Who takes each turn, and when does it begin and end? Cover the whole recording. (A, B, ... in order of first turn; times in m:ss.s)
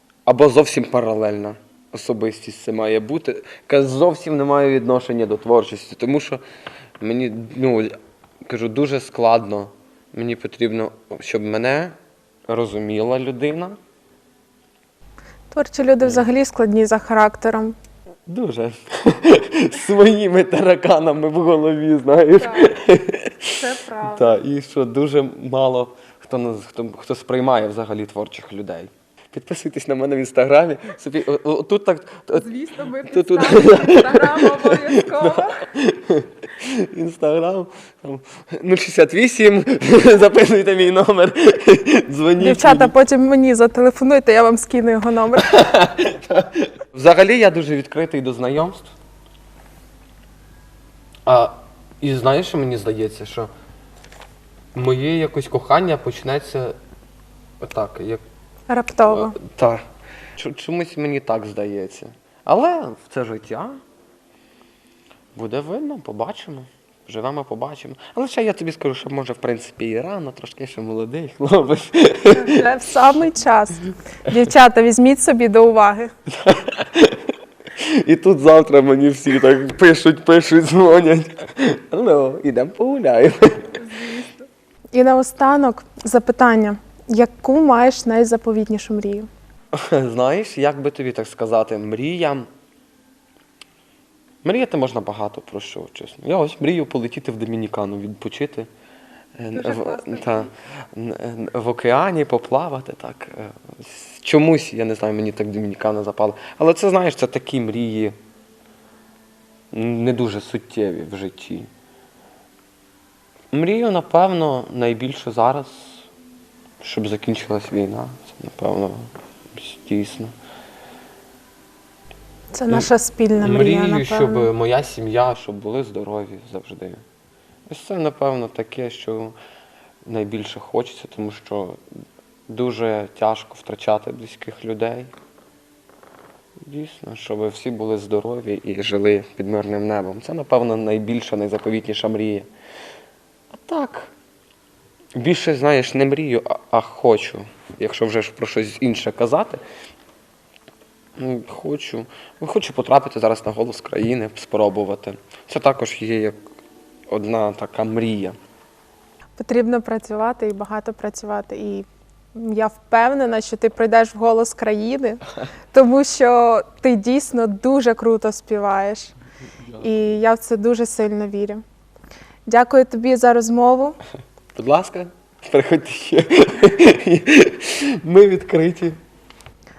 0:00.3-0:06.4 A
0:07.0-0:07.9 A
0:08.5-0:12.0 A
0:12.5-0:13.8 A
0:15.5-0:17.8 B
0:18.3-0:42.9 A
0:22.4-0:22.7 B
0:23.5-0:24.4 B
0:32.4-0:35.6 B
0:42.4-0:45.5 B
0:45.4-0:48.9 A
0:51.2-0:53.5 A
0:54.7-0:56.8 A
0:57.6-0:58.2 A
0:58.7-0:59.4 B
0:59.1-0:59.8 A
1:00.4-1:03.8 A
1:05.3-1:12.7 A
1:12.3-1:16.1 B
1:16.3-1:23.8 A
1:23.9-1:24.3 B
1:24.9-1:29.3 B
1:29.7-1:32.5 A
1:34.4-1:38.7 A
1:39.4-1:48.2 A
1:39.6-1:40.5 B
1:49.7-1:51.7 A
1:53.5-1:56.1 A
1:56.8-2:00.3 A
2:02.5-2:04.5 B
2:03.4-2:07.0 A
2:07.7-2:09.4 A
2:10.0-2:11.8 A
2:12.5-2:15.1 A
2:16.6-2:22.5 A
2:23.5-2:24.1 A
2:25.1-2:29.6 A
2:31.2-2:36.4 A
2:37.1-2:38.4 A
2:39.4-2:49.1 B
2:49.8-2:51.6 B
2:52.5-2:54.0 B
2:54.6-2:59.0 A